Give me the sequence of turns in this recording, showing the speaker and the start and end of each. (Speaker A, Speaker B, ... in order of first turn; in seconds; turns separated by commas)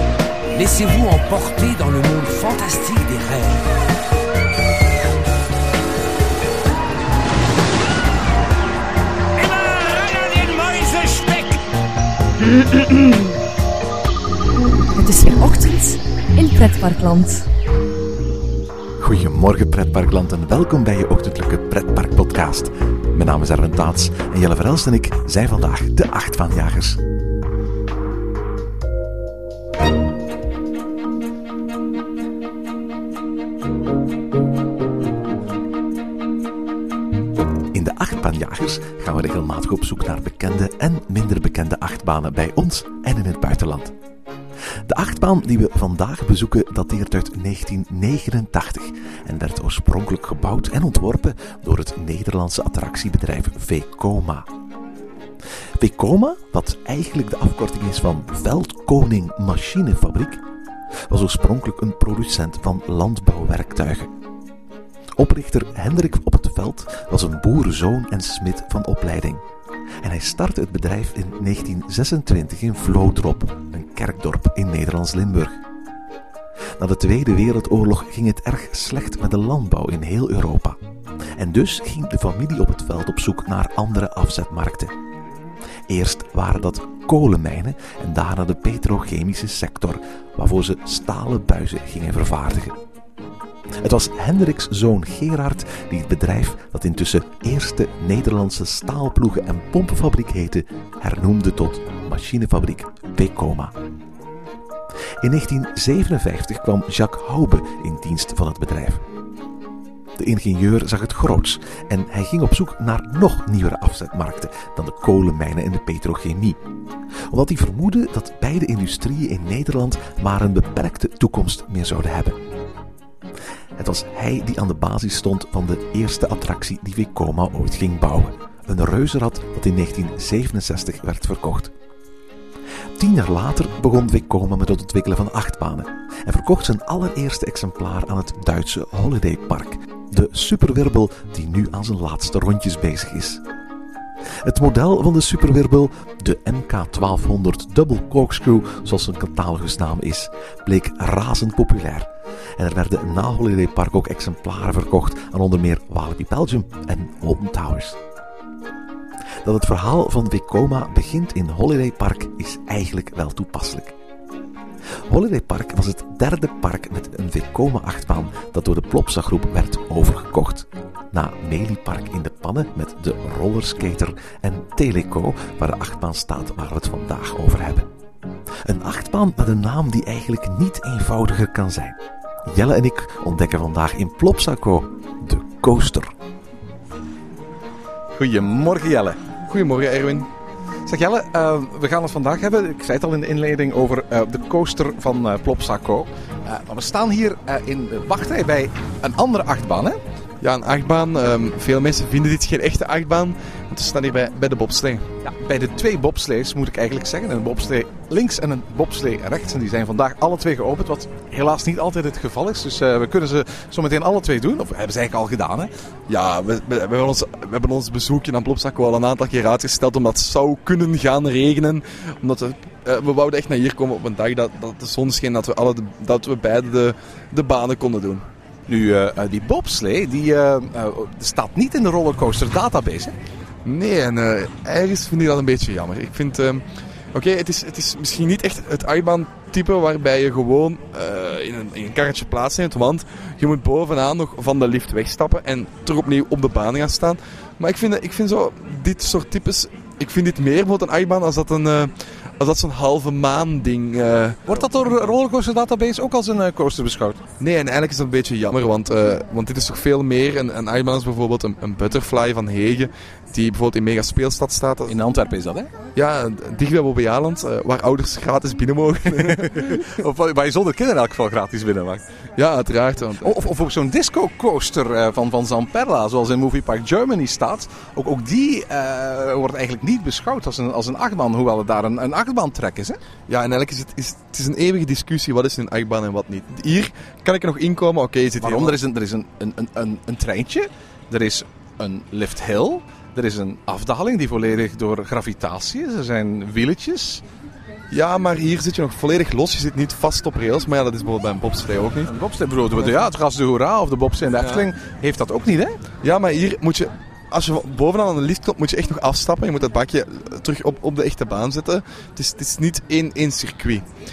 Speaker A: 0.6-3.6, Speaker A: 9.4-11.6, Speaker B: 14.9-17.5, Speaker C: 19.0-27.0, Speaker C: 37.7-43.9, Speaker C: 44.9-54.5, Speaker C: 55.8-60.4, Speaker C: 61.1-64.1, Speaker C: 65.2-69.4, Speaker C: 70.0-75.6, Speaker C: 76.8-80.8, Speaker C: 81.4-84.9, Speaker C: 85.9-92.8, Speaker C: 93.8-103.7, Speaker C: 105.2-109.0, Speaker C: 110.2-116.6, Speaker C: 117.3-122.4, Speaker C: 123.8-131.7, Speaker C: 133.0-143.4, Speaker C: 144.4-158.0, Speaker C: 159.4-163.9, Speaker C: 165.1-177.9, Speaker C: 178.7-186.1, Speaker D: 188.2-189.2, Speaker E: 189.5-190.3, Speaker D: 190.8-200.0, Speaker E: 200.4-205.0, Speaker D: 205.2-215.7, Speaker E: 216.1-228.2, Speaker D: 228.7-233.2, Speaker E: 233.7-254.4, Speaker D: 254.4-257.2, Speaker E: 257.4-264.9, Speaker D: 264.9-265.7, Speaker E: 266.0-269.9, Speaker D: 269.1-272.0, Speaker E: 272.4-273.4, Speaker D: 273.2-283.0, Speaker E: 283.3-288.8, Speaker D: 288.4-297.2, Speaker E: 297.9-302.1, Speaker D: 302.1-305.8, Speaker E: 306.0-313.9